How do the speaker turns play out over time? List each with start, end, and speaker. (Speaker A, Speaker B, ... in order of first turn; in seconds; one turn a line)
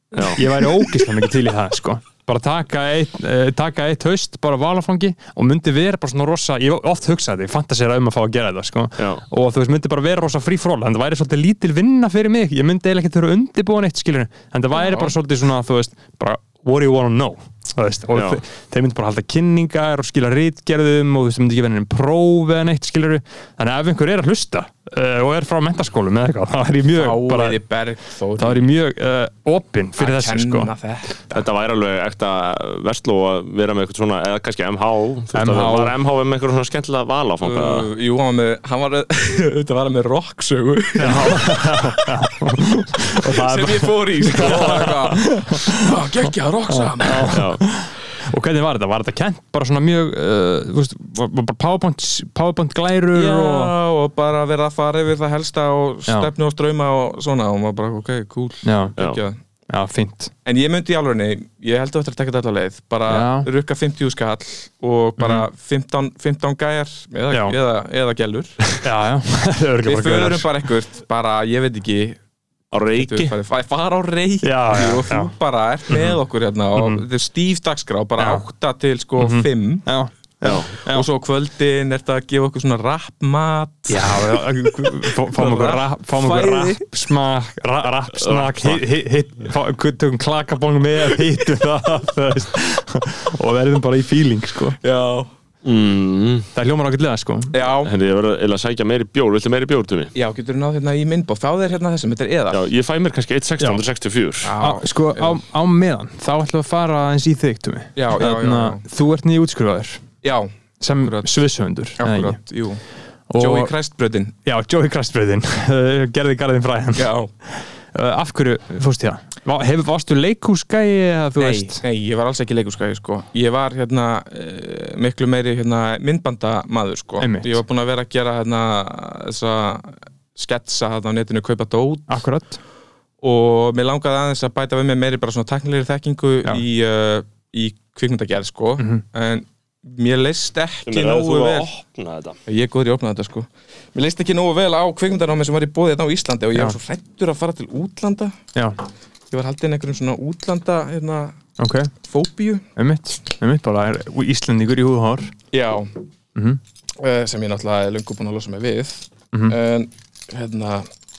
Speaker A: 0.1-0.4
Speaker B: 0.3-27.6
Speaker C: 14.8-15.1
Speaker A: 18.1-18.4
Speaker C: 27.0-28.6
Speaker B: 28.4-30.7
Speaker C: 30.0-31.4
Speaker A: 31.3-37.9
Speaker B: 35.3-36.0
Speaker C: 37.4-42.4
Speaker B: 41.0-46.0
Speaker C: 43.1-47.5
Speaker B: 46.7-53.7
Speaker A: 47.3-47.6
Speaker C: 53.1-59.4
Speaker B: 58.6-59.0
Speaker B: 59.7-60.3
Speaker C: 60.5-68.7
Speaker B: 63.1-63.5
Speaker B: 65.2-65.5
Speaker B: 67.3-67.6
Speaker B: 68.8-70.5
Speaker C: 69.8-72.2
Speaker A: 72.7-73.3
Speaker C: 73.0-79.9
Speaker B: 74.4-75.3
Speaker B: 75.9-76.2
Speaker B: 76.8-77.0
Speaker B: 78.2-78.4
Speaker B: 79.2-81.1
Speaker C: 80.8-86.9
Speaker B: 83.9-94.8
Speaker A: 88.1-88.8
Speaker C: 94.8-95.3
Speaker A: 95.6-96.5
Speaker B: 96.5-97.5
Speaker C: 97.5-97.9
Speaker A: 97.8-100.1
Speaker C: 100.2-102.6
Speaker A: 102.5-104.6
Speaker C: 104.4-105.4
Speaker B: 104.6-110.0
Speaker C: 108.0-108.8
Speaker C: 110.2-111.3
Speaker B: 110.8-112.4
Speaker C: 112.0-112.8
Speaker B: 113.3-113.7
Speaker C: 113.4-114.3
Speaker B: 114.5-121.8
Speaker C: 117.0-117.3
Speaker C: 121.4-132.2
Speaker B: 127.2-127.6
Speaker B: 132.1-132.6
Speaker C: 133.2-141.7
Speaker A: 140.9-142.4
Speaker C: 142.5-148.4
Speaker C: 149.3-151.4
Speaker B: 151.6-151.9
Speaker C: 152.0-152.7
Speaker B: 152.8-155.3
Speaker C: 155.5-155.9
Speaker B: 156.3-156.6
Speaker C: 157.0-160.9